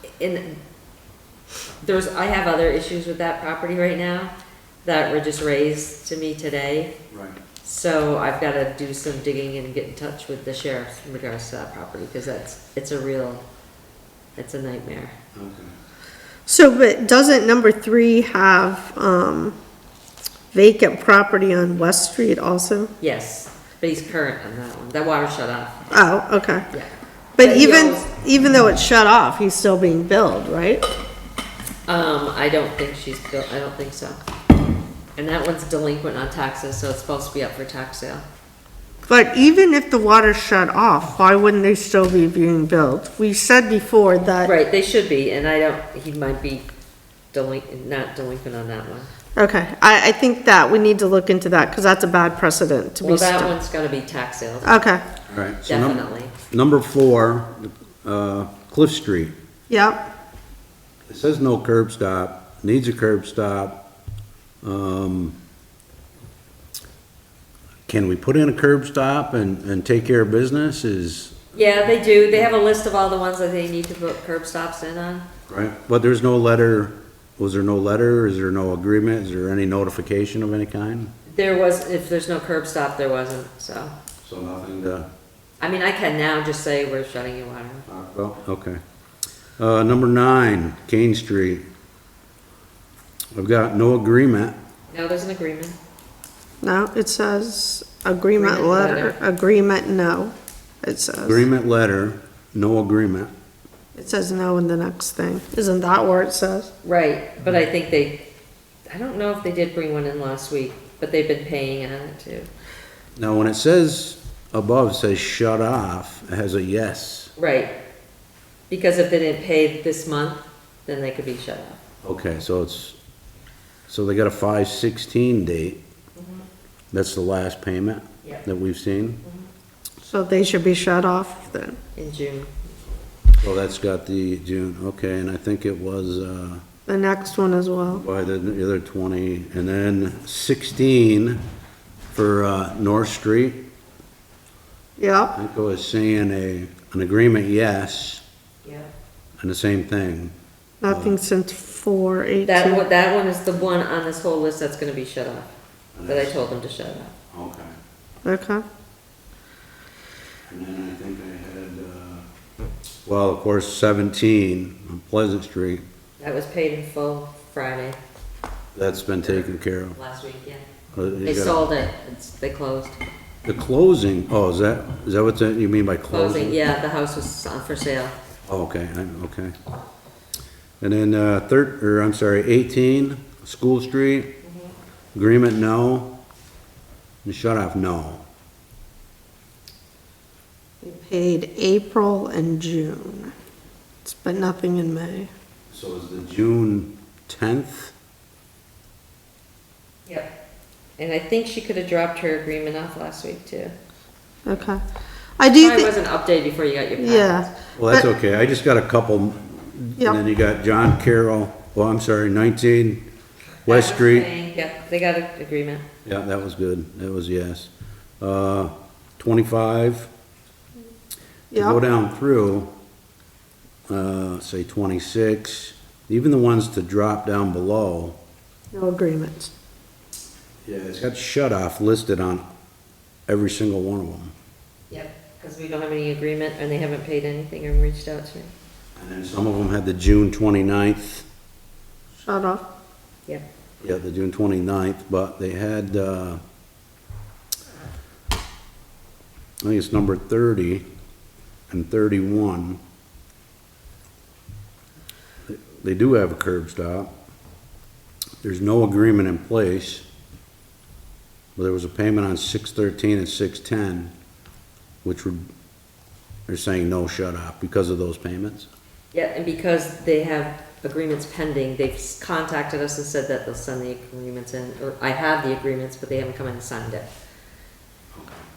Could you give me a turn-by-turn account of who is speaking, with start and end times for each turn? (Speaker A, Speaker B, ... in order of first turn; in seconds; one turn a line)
Speaker A: 0.2-0.6
Speaker A: 1.8-4.3
Speaker A: 4.8-6.9
Speaker B: 7.1-7.4
Speaker A: 7.6-13.4
Speaker A: 14.4-15.1
Speaker B: 15.3-15.7
Speaker C: 16.5-19.6
Speaker C: 20.5-22.9
Speaker A: 23.0-25.8
Speaker C: 25.9-26.7
Speaker A: 26.7-28.1
Speaker C: 27.4-30.8
Speaker A: 31.9-34.2
Speaker A: 35.2-38.2
Speaker C: 39.1-44.5
Speaker A: 44.4-46.7
Speaker A: 47.3-49.1
Speaker C: 49.4-53.5
Speaker A: 53.0-54.7
Speaker C: 54.6-55.0
Speaker B: 55.3-59.4
Speaker A: 55.7-56.3
Speaker C: 59.7-60.1
Speaker B: 61.1-63.8
Speaker B: 64.6-65.4
Speaker B: 67.9-71.5
Speaker A: 71.5-75.3
Speaker B: 75.5-81.1
Speaker A: 81.3-83.9
Speaker B: 84.2-85.1
Speaker A: 85.6-87.8
Speaker B: 87.9-88.8
Speaker B: 89.6-91.7
Speaker B: 93.3-94.6
Speaker A: 94.9-95.8
Speaker C: 96.6-101.5
Speaker A: 98.4-99.2
Speaker B: 101.2-103.3
Speaker C: 104.0-106.7
Speaker A: 106.8-108.2
Speaker A: 108.9-112.5
Speaker B: 113.2-117.3
Speaker A: 117.4-117.7
Speaker A: 118.7-121.8
Speaker B: 122.0-123.0
Speaker B: 123.9-125.8
Speaker A: 126.2-126.5
Speaker B: 126.9-129.2
Speaker A: 129.2-129.5
Speaker C: 130.0-131.8
Speaker A: 131.9-132.5
Speaker B: 133.4-136.6
Speaker C: 136.9-138.0
Speaker B: 137.9-141.4
Speaker B: 142.1-143.6
Speaker C: 145.0-145.3
Speaker B: 145.3-148.2
Speaker A: 148.6-148.9
Speaker B: 149.4-150.3
Speaker C: 150.8-152.8
Speaker B: 150.9-151.2
Speaker A: 152.4-155.5
Speaker B: 155.9-156.4
Speaker A: 156.1-157.1
Speaker B: 157.3-157.7
Speaker C: 158.2-158.6
Speaker B: 160.5-162.2
Speaker B: 163.1-165.8
Speaker A: 166.2-168.0
Speaker B: 168.8-170.0
Speaker A: 169.2-170.6
Speaker B: 170.9-171.6
Speaker A: 171.2-173.0
Speaker B: 173.4-176.6
Speaker A: 176.1-178.2
Speaker B: 178.4-179.6
Speaker B: 180.8-184.3
Speaker B: 185.1-186.1
Speaker B: 187.2-188.2
Speaker C: 190.8-193.3
Speaker C: 194.1-195.3
Speaker B: 195.7-197.9
Speaker A: 201.0-203.7
Speaker C: 204.4-204.8
Speaker C: 205.4-205.9
Speaker A: 205.5-207.5
Speaker C: 207.0-208.1
Speaker B: 207.8-213.1
Speaker A: 213.6-215.8
Speaker B: 213.7-214.3
Speaker B: 216.1-220.1
Speaker C: 221.5-221.8
Speaker B: 221.5-222.7
Speaker B: 223.9-228.2
Speaker C: 228.7-229.5
Speaker B: 230.6-232.4
Speaker B: 233.3-234.3
Speaker A: 234.9-238.5
Speaker B: 239.0-241.2
Speaker C: 242.2-242.6
Speaker B: 243.8-246.4
Speaker B: 249.6-250.8
Speaker B: 251.7-252.8
Speaker B: 255.5-257.1
Speaker B: 258.4-260.0
Speaker B: 261.6-264.1
Speaker B: 265.0-265.4
Speaker B: 266.5-268.7
Speaker A: 269.1-277.1
Speaker B: 278.1-278.4